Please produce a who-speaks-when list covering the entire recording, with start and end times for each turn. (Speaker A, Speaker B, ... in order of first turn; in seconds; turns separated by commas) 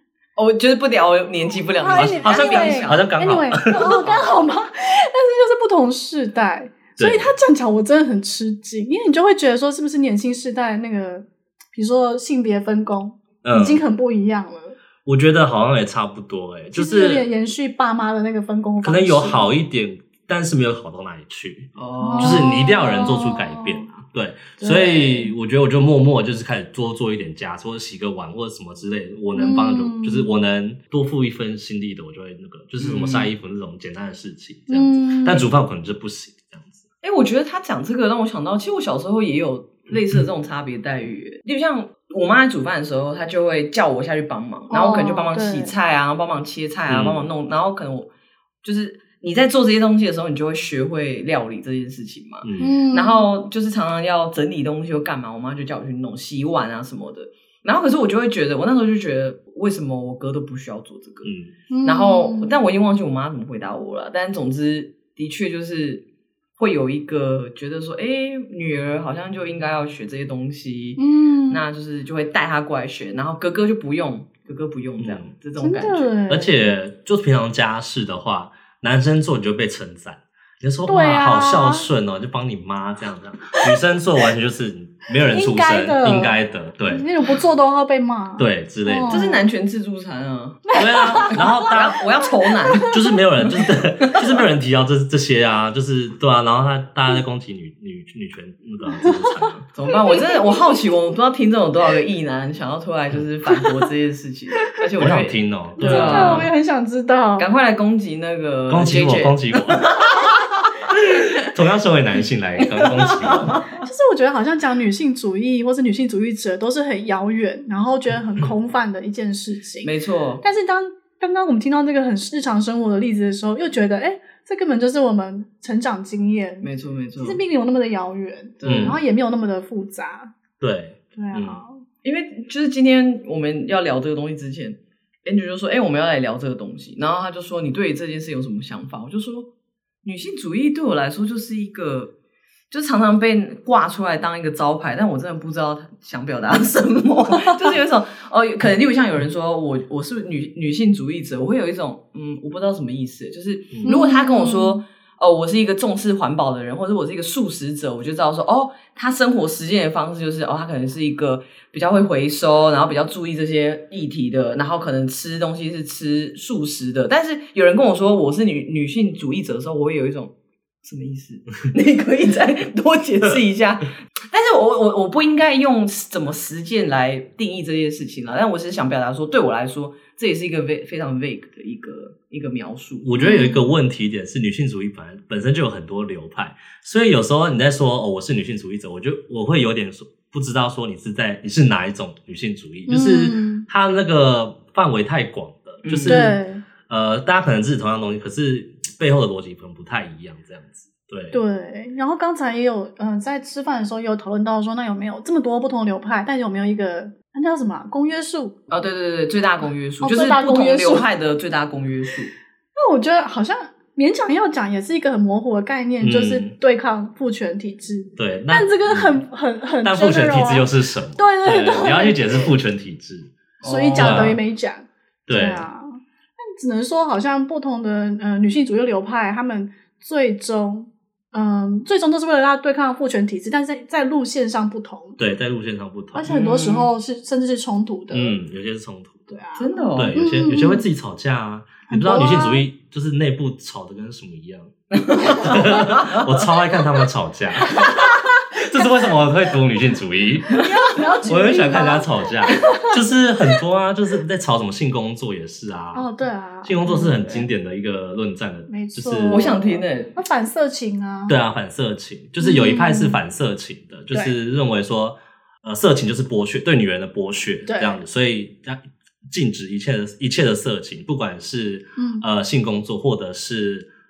Speaker A: 0.4-3.1, Speaker B: 1.8-14.8, Speaker C: 1.9-4.1, Speaker A: 3.7-4.3, Speaker C: 7.0-7.3, Speaker C: 13.4-13.8, Speaker C: 15.1-17.3, Speaker B: 16.7-19.5, Speaker C: 18.8-36.8, Speaker A: 21.8-22.5, Speaker B: 22.0-23.9, Speaker B: 24.6-25.3, Speaker B: 29.4-30.3, Speaker A: 32.8-33.3, Speaker B: 34.7-35.5, Speaker A: 37.0-48.1, Speaker C: 39.9-40.2, Speaker B: 44.7-45.7, Speaker C: 46.9-47.3, Speaker A: 48.6-66.0, Speaker C: 52.4-52.8, Speaker B: 52.6-53.3, Speaker C: 61.2-61.5, Speaker B: 61.7-62.5, Speaker A: 66.6-76.1, Speaker B: 71.0-71.6, Speaker C: 75.0-75.3, Speaker B: 75.6-76.7, Speaker C: 76.3-87.1, Speaker B: 80.9-81.9, Speaker B: 85.2-89.4, Speaker C: 88.4-89.3, Speaker A: 89.1-94.2, Speaker B: 90.7-91.8, Speaker C: 90.8-92.0, Speaker B: 92.3-93.0, Speaker C: 92.8-99.7, Speaker B: 98.9-100.8, Speaker A: 99.8-106.5, Speaker C: 105.0-106.5, Speaker B: 105.8-107.5, Speaker A: 107.4-110.8, Speaker C: 108.7-110.2, Speaker C: 110.9-113.6, Speaker A: 112.7-113.8, Speaker B: 113.8-126.7, Speaker A: 119.8-120.4, Speaker A: 126.6-127.4, Speaker B: 127.2-130.3, Speaker A: 128.6-129.0, Speaker C: 128.6-129.0, Speaker C: 130.6-131.6, Speaker B: 131.2-131.8, Speaker A: 132.0-139.5, Speaker A: 140.0-142.1, Speaker A: 142.7-170.3, Speaker B: 153.8-154.8, Speaker A: 170.8-183.1, Speaker C: 183.0-201.4, Speaker B: 183.2-183.7, Speaker B: 192.9-193.7, Speaker A: 195.8-196.3, Speaker B: 196.1-196.6, Speaker B: 201.3-208.5, Speaker A: 208.7-212.3, Speaker B: 210.0-211.1, Speaker B: 212.8-222.5, Speaker C: 216.0-216.5, Speaker C: 218.2-219.2, Speaker C: 219.8-223.3, Speaker A: 223.6-224.3, Speaker B: 223.6-235.2, Speaker C: 223.9-224.4, Speaker C: 225.3-225.7, Speaker C: 235.2-236.3, Speaker B: 236.1-238.4, Speaker A: 236.3-236.9, Speaker C: 238.1-239.3, Speaker B: 239.3-240.9, Speaker A: 239.6-240.2, Speaker C: 240.0-250.7, Speaker B: 241.9-242.7, Speaker A: 244.9-246.3, Speaker B: 250.5-252.9, Speaker C: 251.2-256.1, Speaker B: 255.9-257.5, Speaker C: 256.6-259.6, Speaker B: 258.7-261.4, Speaker A: 259.3-260.2, Speaker C: 261.3-273.9, Speaker B: 262.4-263.2, Speaker B: 267.7-268.0, Speaker B: 272.0-272.2